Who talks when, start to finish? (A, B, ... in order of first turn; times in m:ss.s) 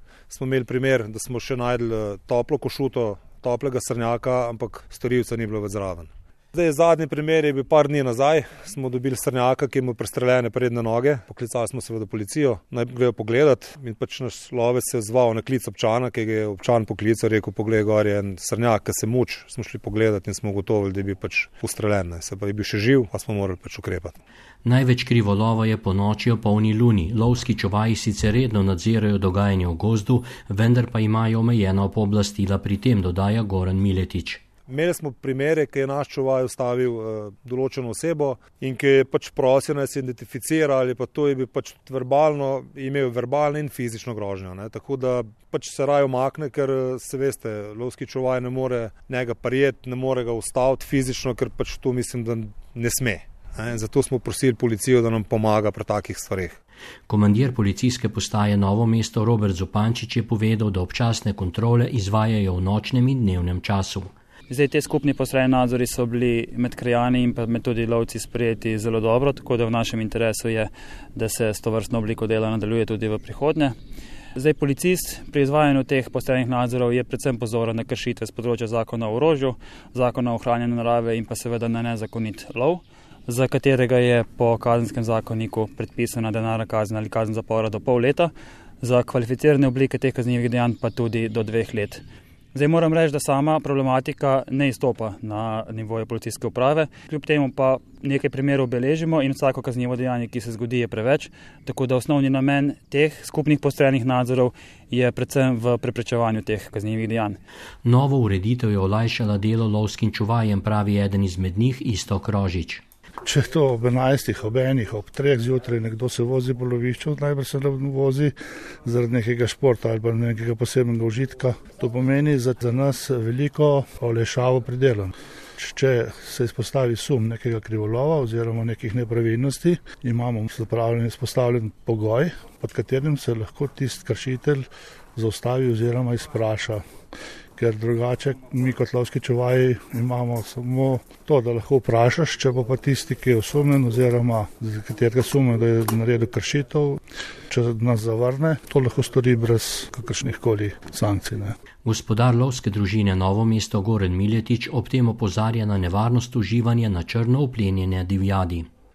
0:00.3-0:24.2 A
0:24.6-0:34.4 B
0:34.7-0:56.6 A
0:57.1-1:04.1 B
1:04.5-1:13.8 C
1:14.4-1:47.4 C
1:47.8-1:52.8 B
1:53.2-2:16.9 D
2:17.6-2:31.6 D
2:31.8-2:38.7 B